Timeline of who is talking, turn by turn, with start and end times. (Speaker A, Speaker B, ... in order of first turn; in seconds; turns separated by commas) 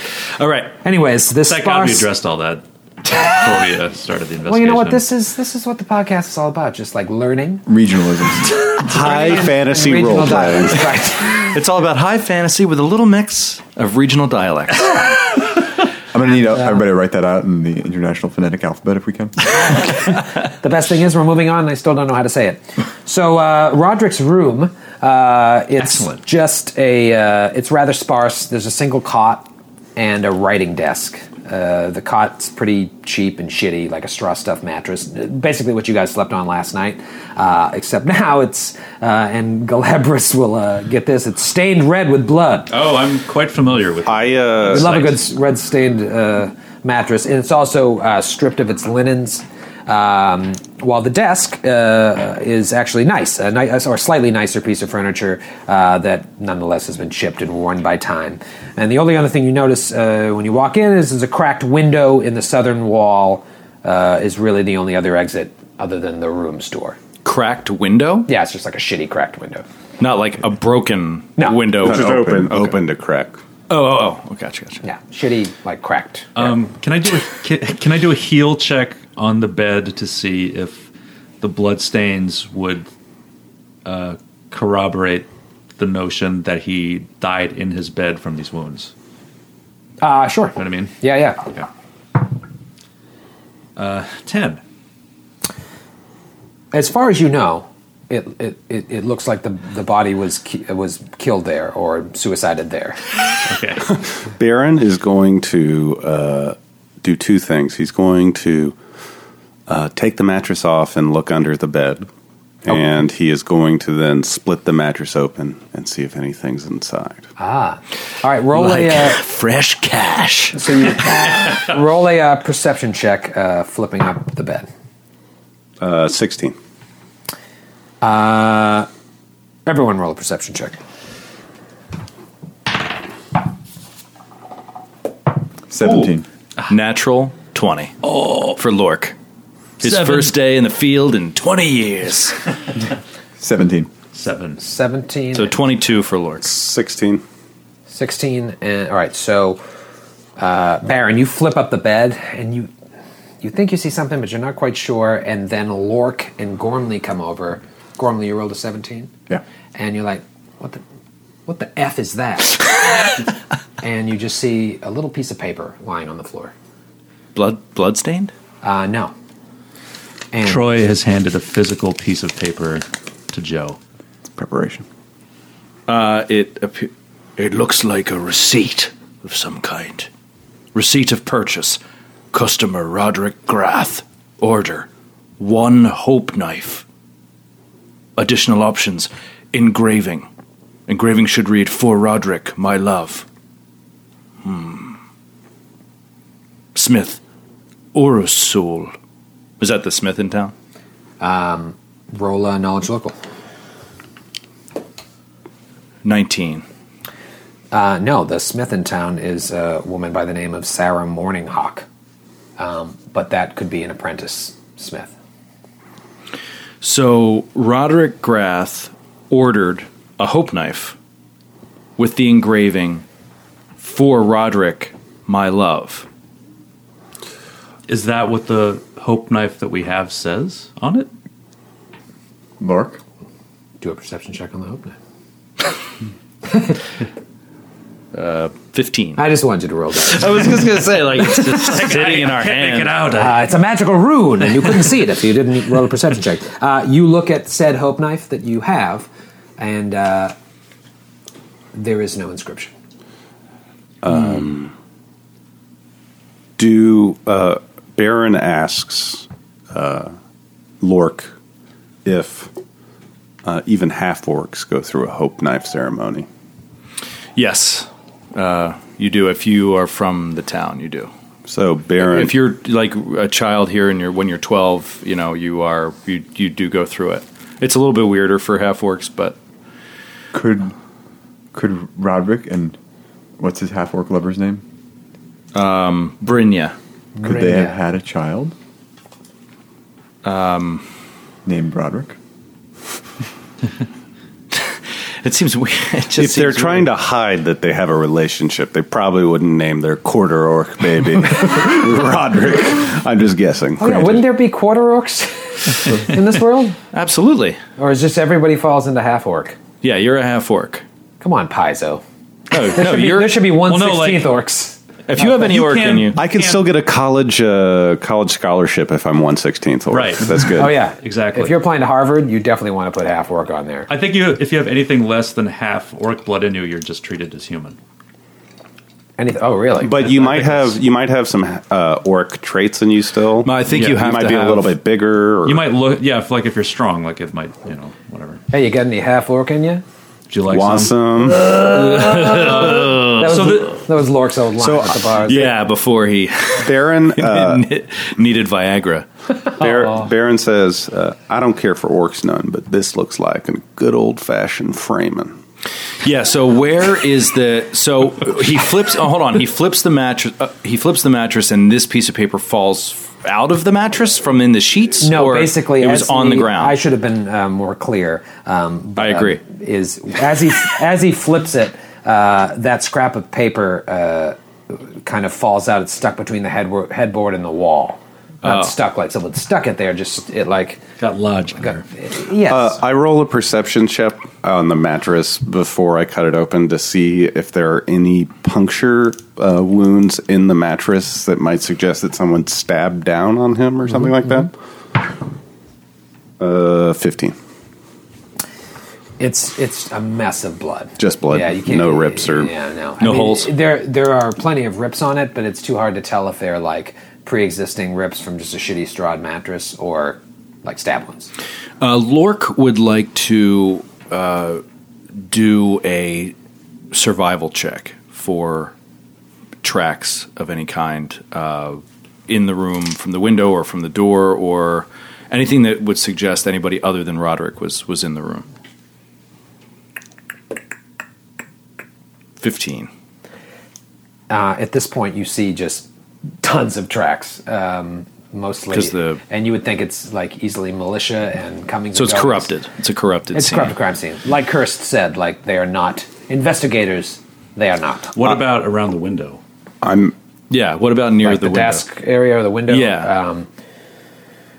Speaker A: 0.3-0.8, Speaker B: 0.8-2.1, Speaker C: 1.5-5.0, Speaker B: 4.5-7.7, Speaker D: 7.7-8.6, Speaker B: 8.8-11.6, Speaker E: 8.8-10.9, Speaker A: 9.0-9.4, Speaker A: 11.3-15.0, Speaker D: 16.1-19.5, Speaker B: 19.7-42.7, Speaker C: 42.7-45.1, Speaker E: 44.1-44.9, Speaker B: 44.7-67.0, Speaker A: 67.2-68.3, Speaker B: 68.3-69.7, Speaker A: 70.0-72.2, Speaker E: 71.8-73.4, Speaker D: 71.8-72.7, Speaker A: 73.7-74.8, Speaker B: 74.8-76.5, Speaker C: 76.3-80.9, Speaker C: 81.4-82.9, Speaker C: 83.8-88.9, Speaker B: 90.0-91.5, Speaker C: 90.6-91.0, Speaker C: 93.8-94.6, Speaker B: 96.7-103.1, Speaker C: 103.5-103.9, Speaker E: 103.9-108.8, Speaker E: 109.7-112.1, Speaker E: 112.7-117.3, Speaker B: 117.4-119.2, Speaker A: 118.5-120.9, Speaker B: 120.5-124.7, Speaker E: 125.8-126.6, Speaker B: 128.0-128.9, Speaker B: 129.7-130.8, Speaker D: 135.7-136.2, Speaker A: 136.7-139.2, Speaker C: 138.0-138.6, Speaker A: 139.8-142.4, Speaker C: 139.8-140.3, Speaker D: 143.4-143.9, Speaker C: 144.1-144.6, Speaker B: 144.6-145.6, Speaker A: 145.3-146.5, Speaker E: 146.4-147.2, Speaker B: 147.9-149.6, Speaker B: 150.4-152.7, Speaker B: 153.4-159.1, Speaker B: 159.8-160.8, Speaker B: 161.5-162.7, Speaker B: 163.8-166.5, Speaker A: 167.3-168.3, Speaker B: 168.6-169.1, Speaker B: 170.3-170.7, Speaker C: 170.4-173.8, Speaker D: 174.3-174.8, Speaker A: 175.9-180.1, Speaker A: 180.7-181.8, Speaker A: 182.3-184.9, Speaker A: 185.4-186.8, Speaker A: 188.2-190.3, Speaker A: 190.9-193.3, Speaker A: 194.4-195.0, Speaker A: 196.8-197.2, Speaker A: 197.9-198.9, Speaker A: 199.6-200.5, Speaker B: 201.2-203.2, Speaker A: 206.0-206.7, Speaker B: 207.7-211.9, Speaker B: 212.6-215.1, Speaker A: 216.8-221.0, Speaker A: 222.0-223.1, Speaker A: 223.8-226.1, Speaker C: 227.9-231.1, Speaker D: 232.6-233.0, Speaker B: 233.8-234.9, Speaker B: 236.5-236.8, Speaker A: 238.1-239.2, Speaker B: 239.2-240.8, Speaker A: 240.0-243.0, Speaker C: 241.3-243.5, Speaker B: 243.1-250.3, Speaker B: 251.7-252.7, Speaker E: 254.0-254.7, Speaker E: 256.6-260.1, Speaker E: 260.8-261.3, Speaker E: 262.1-262.5, Speaker E: 263.4-266.3, Speaker A: 267.4-271.1, Speaker E: 271.5-272.3, Speaker A: 272.0-279.4, Speaker D: 280.3-280.7, Speaker D: 281.5-282.8, Speaker D: 283.4-284.6, Speaker A: 285.5-286.8, Speaker B: 287.2-287.8, Speaker D: 287.2-288.6, Speaker A: 290.2-290.9, Speaker D: 291.4-292.2, Speaker A: 294.5-296.9, Speaker E: 296.2-304.2, Speaker B: 303.8-306.8, Speaker A: 306.9-307.6, Speaker B: 307.8-309.6, Speaker A: 309.8-310.8, Speaker B: 311.2-312.0, Speaker A: 312.5-313.4, Speaker B: 312.6-314.8, Speaker C: 313.6-314.4, Speaker A: 315.1-316.2, Speaker C: 315.2-316.7, Speaker E: 316.1-320.8, Speaker C: 319.9-321.6, Speaker B: 320.6-323.9, Speaker C: 323.9-327.8, Speaker B: 329.2-330.6, Speaker E: 329.8-335.7, Speaker A: 333.4-334.8, Speaker C: 335.4-338.4, Speaker B: 338.5-339.8, Speaker C: 340.3-340.9, Speaker E: 340.5-341.5, Speaker A: 341.5-343.5, Speaker B: 341.6-345.5, Speaker C: 342.0-343.8, Speaker A: 344.6-349.1, Speaker E: 346.6-347.7, Speaker E: 349.5-355.4, Speaker A: 356.0-366.8, Speaker B: 365.0-380.8, Speaker A: 369.0-369.4, Speaker A: 378.4-378.7, Speaker C: 381.0-381.9, Speaker B: 381.7-382.8, Speaker E: 382.5-394.5, Speaker E: 396.4-397.4, Speaker B: 399.2-411.3, Speaker E: 401.0-402.5, Speaker A: 403.0-403.5, Speaker A: 411.8-414.6, Speaker A: 415.3-416.3, Speaker A: 416.9-418.7, Speaker A: 419.6-428.5, Speaker A: 432.4-432.9, Speaker B: 434.3-435.9, Speaker B: 436.4-442.5, Speaker A: 438.7-439.2, Speaker A: 441.9-443.7, Speaker B: 443.3-448.3, Speaker C: 448.1-449.4, Speaker E: 449.8-450.1, Speaker A: 450.5-451.8, Speaker B: 451.2-453.5, Speaker A: 452.7-453.1